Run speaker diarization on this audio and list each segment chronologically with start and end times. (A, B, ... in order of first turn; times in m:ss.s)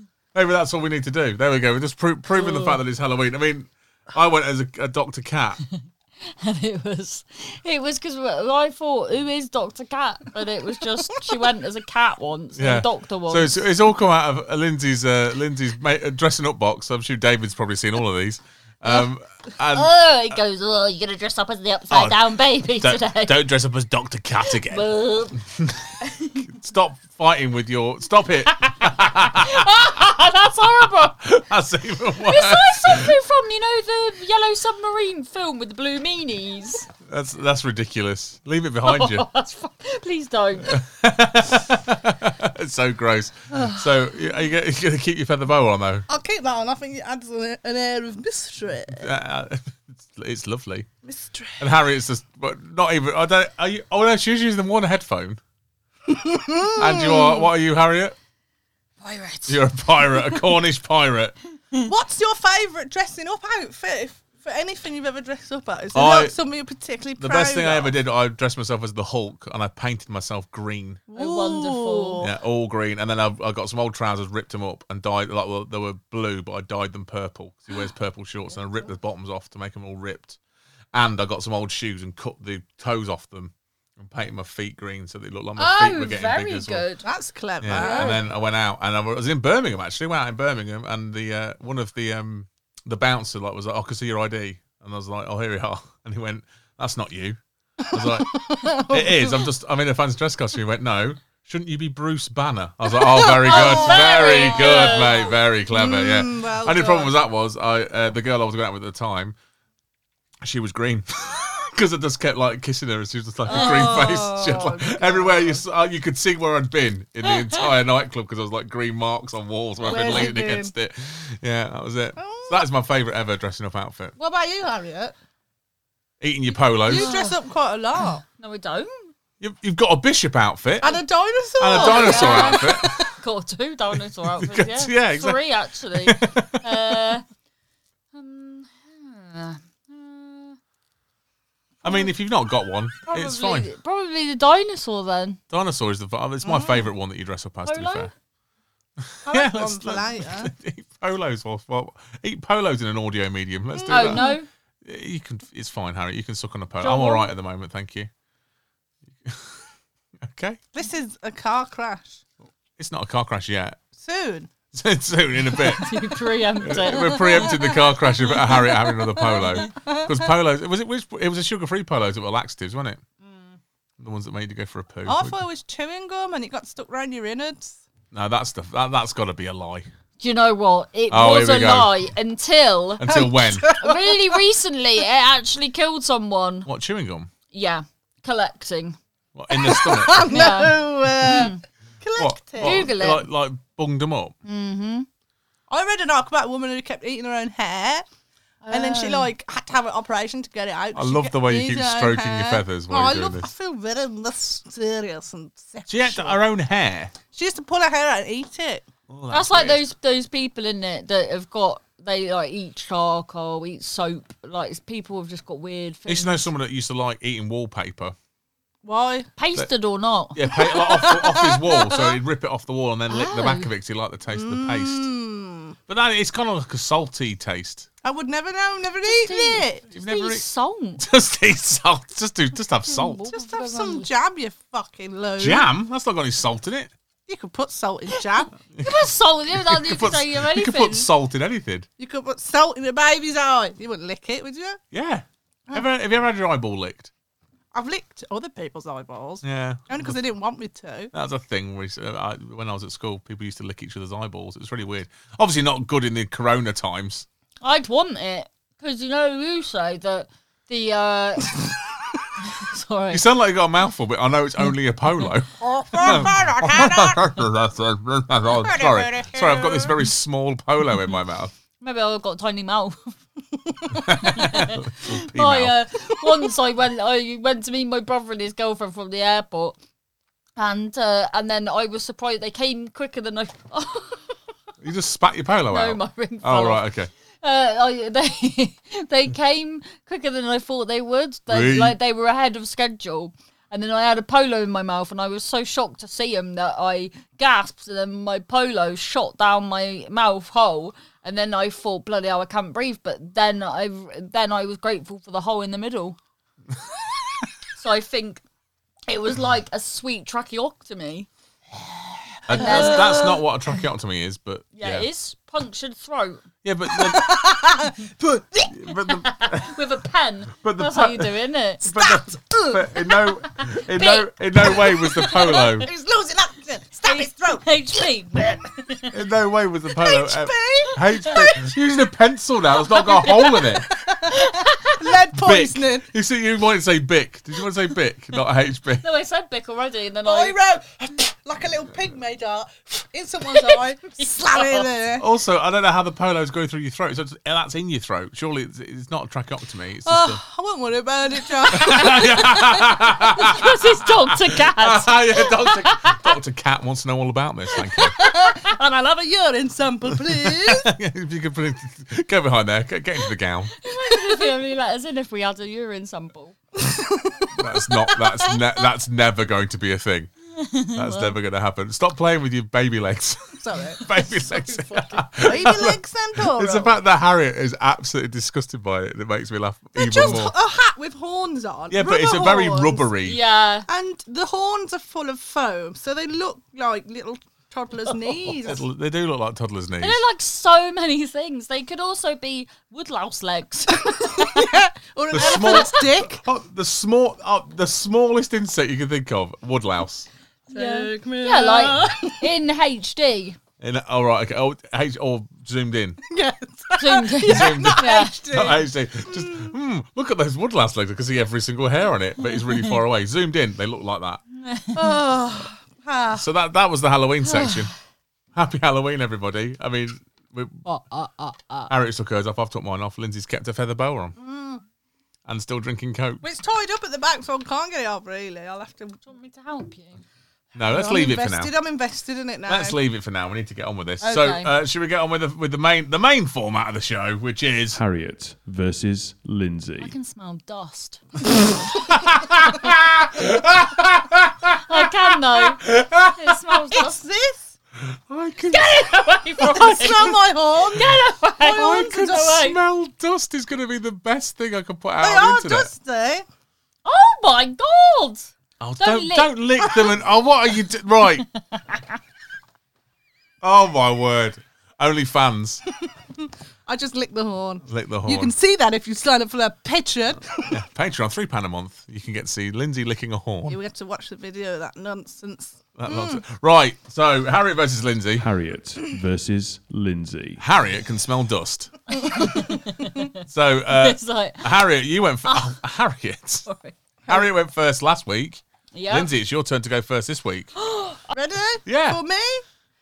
0:00.3-0:05.6 A
0:02.3-0:02.8 B
0:05.7-0:13.6 B
0:12.6-0:20.4 A
0:19.7-0:23.4 B
0:21.9-0:29.9 A
0:24.4-0:25.5 B
0:26.0-0:26.4 B
0:29.2-0:31.2 B
0:31.2-0:33.2 A
0:32.2-0:36.9 B
0:37.0-0:39.2 A
0:38.8-0:40.8 B
0:40.6-0:46.0 A
0:43.5-0:43.8 C
0:46.1-0:49.1 C
0:48.9-0:50.9 A
0:51.0-0:51.7 C
0:51.6-0:55.4 A
0:56.1-0:57.4 C
0:56.7-0:58.1 A
0:59.0-1:00.4 B
0:59.5-1:01.3 A
1:01.8-1:07.9 C
1:05.9-1:06.3 A
1:07.2-1:11.0 A
1:11.1-1:12.3 C
1:11.1-1:12.2 B
1:12.2-1:20.4 A
1:20.9-1:26.8 A
1:25.6-1:27.0 B
1:27.0-1:28.2 C
1:27.6-1:37.4 A
1:27.7-1:28.2 B
1:37.8-1:39.4 C
1:37.9-1:49.4 A
1:43.0-1:47.1 C
1:43.4-1:45.3 B
1:50.4-2:04.1 A
1:53.5-1:55.6 C
1:53.5-1:54.1 B
1:59.8-2:00.7 C
1:59.9-2:00.3 B
2:02.2-2:02.7 C
2:04.2-2:05.2 C
2:06.2-2:07.1 A
2:06.8-2:08.2 C
2:06.9-2:07.4 B
2:08.2-2:09.1 B
2:09.4-2:11.0 A
2:10.8-2:13.1 C
2:11.6-2:13.0 A
2:11.7-2:17.2 B
2:14.4-2:15.4 A
2:15.9-2:17.0 A
2:18.1-2:20.6 B
2:21.8-2:22.1 B
2:21.8-2:23.7 A
2:23.0-2:25.4 B
2:25.5-2:28.1 A
2:26.4-2:26.8 C
2:27.6-2:28.1 B
2:29.0-2:34.3 A
2:29.2-2:30.5 C
2:33.7-2:34.4 C
2:33.9-2:34.5 B
2:34.8-2:38.1 A
2:36.8-2:37.3 B
2:39.2-2:39.6 A
2:40.2-2:40.6 A
2:40.7-2:42.2 C
2:42.8-2:43.8 A
2:44.0-2:44.5 C
2:44.7-2:45.9 A
2:45.5-2:46.0 C
2:45.8-2:47.7 B
2:46.6-2:53.0 A
2:46.8-2:50.3 C
2:49.2-2:49.7 B
2:53.2-2:53.6 B
2:54.0-2:55.4 A
2:55.0-2:57.8 C
2:58.1-2:59.9 A
3:00.2-3:06.7 B
3:01.1-3:01.9 A
3:03.0-3:03.7 A
3:03.1-3:04.4 C
3:06.6-3:07.3 A
3:07.5-3:09.0 B
3:09.3-3:10.2 A
3:09.5-3:12.9 C
3:10.2-3:11.6 B
3:12.2-3:14.3 A
3:12.6-3:13.3 B
3:14.4-3:15.1 B
3:15.7-3:18.0 C
3:18.6-3:19.3 B
3:18.7-3:26.4 C
3:20.9-3:23.5 A
3:25.9-3:27.1 A
3:27.3-3:28.9 C
3:29.1-3:29.8 A
3:29.3-3:36.5 B
3:36.1-3:38.1 A
3:38.8-3:39.3 C
3:39.4-3:40.4 B
3:40.3-3:45.1 A
3:40.5-3:42.2 C
3:43.1-3:43.7 B
3:44.3-3:45.8 C
3:45.9-3:47.9 A
3:48.0-3:49.8 C
3:49.0-3:51.0 B
3:49.9-3:50.4 A
3:51.0-3:53.2 A
3:52.9-3:54.1 B
3:53.3-3:55.7 C
3:55.4-3:56.9 A
3:57.3-3:58.5 C
3:58.1-4:01.1 B
3:58.8-4:01.9 A
4:02.0-4:04.8 C
4:04.9-4:07.1 A
4:07.7-4:11.1 C
4:09.4-4:10.2 A
4:11.1-4:17.2 A
4:17.6-4:21.6 B
4:21.5-4:22.2 C
4:22.4-4:23.2 B
4:23.1-4:31.5 A
4:25.6-4:27.3 C
4:28.6-4:30.0 C
4:31.8-4:33.2 B
4:34.0-4:35.7 A
4:34.1-4:39.8 B
4:40.6-4:44.2 B
4:44.8-4:47.1 A
4:45.7-4:46.8 B
4:47.4-5:06.2 B
4:51.5-4:52.0 A
5:07.8-5:08.4 B
5:09.1-5:11.3 B
5:12.5-5:15.0 A
5:12.5-5:13.4 C
5:12.5-5:13.4 B
5:14.7-5:16.4 B
5:16.6-5:17.4 A
5:16.9-5:18.9 C
5:18.7-5:19.8 A
5:19.2-5:21.8 B
5:20.6-5:25.9 A
5:21.9-5:23.2 C
5:23.9-5:24.7 B
5:24.6-5:28.0 C
5:27.0-5:29.1 B
5:29.1-5:33.9 A
5:29.9-5:31.7 C
5:31.2-5:31.5 B
5:32.9-5:33.6 B
5:33.2-5:36.0 C
5:34.3-5:35.0 B
5:35.3-5:39.0 A
5:39.0-5:40.6 B
5:40.2-5:45.2 C
5:43.5-5:44.9 B
5:45.2-5:50.4 A
5:50.0-5:53.0 C
5:51.7-5:58.2 A
5:53.2-5:56.3 B
5:57.9-6:00.9 C
5:58.2-5:58.7 B
6:00.1-6:03.7 A
6:03.8-6:06.6 B
6:06.8-6:08.5 C
6:07.6-6:10.3 A
6:10.6-6:11.3 B
6:10.9-6:20.5 A
6:13.6-6:14.8 C
6:14.9-6:15.2 B
6:15.3-6:17.0 C
6:20.0-6:23.1 C
6:21.9-6:23.4 A
6:23.2-6:23.9 B
6:23.9-6:28.8 C
6:28.3-6:30.2 A
6:30.0-6:34.7 B
6:33.9-6:36.4 C
6:35.3-6:40.3 A
6:35.4-6:35.9 B
6:40.7-6:42.5 C
6:40.7-6:43.6 B
6:43.8-6:46.2 A
6:46.2-6:49.7 C
6:47.0-6:48.3 B
6:47.4-6:54.4 A
6:52.5-6:52.8 B
6:54.6-6:55.1 B
6:54.9-6:56.4 C
6:56.3-6:57.9 A
6:57.4-6:57.9 B
6:58.5-7:00.8 A
7:00.8-7:01.9 B
7:01.9-7:04.4 A
7:04.4-7:04.8 C
7:05.4-7:06.4 A
7:06.4-7:09.2 C
7:09.2-7:10.2 B
7:10.7-7:11.7 A
7:10.9-7:13.0 C
7:12.7-7:18.0 A
7:14.2-7:14.7 B
7:17.9-7:20.1 D
7:20.0-7:21.2 B
7:22.1-7:26.6 A
7:24.9-7:25.8 B
7:26.3-7:27.2 B
7:26.9-7:27.7 C
7:28.0-7:29.1 A
7:28.7-7:32.8 B
7:29.6-7:32.3 C
7:31.6-7:35.9 A
7:35.2-7:36.4 C
7:37.0-7:39.5 B
7:38.8-7:41.4 A
7:39.8-7:40.2 C
7:41.5-7:42.2 B
7:43.6-7:45.8 A
7:45.9-7:50.8 C
7:47.9-7:48.5 A
7:50.7-7:53.8 A
7:53.7-7:56.4 C
7:56.0-7:58.5 A
7:58.4-8:00.6 D
8:00.6-8:02.0 A
8:02.2-8:03.4 B
8:02.2-8:02.8 C
8:03.4-8:06.6 A
8:03.9-8:04.7 B
8:05.4-8:05.7 B
8:06.6-8:07.0 B
8:07.2-8:07.5 C
8:07.3-8:10.7 A
8:08.9-8:09.3 B
8:10.8-8:11.2 B
8:11.3-8:12.6 C
8:11.9-8:12.2 A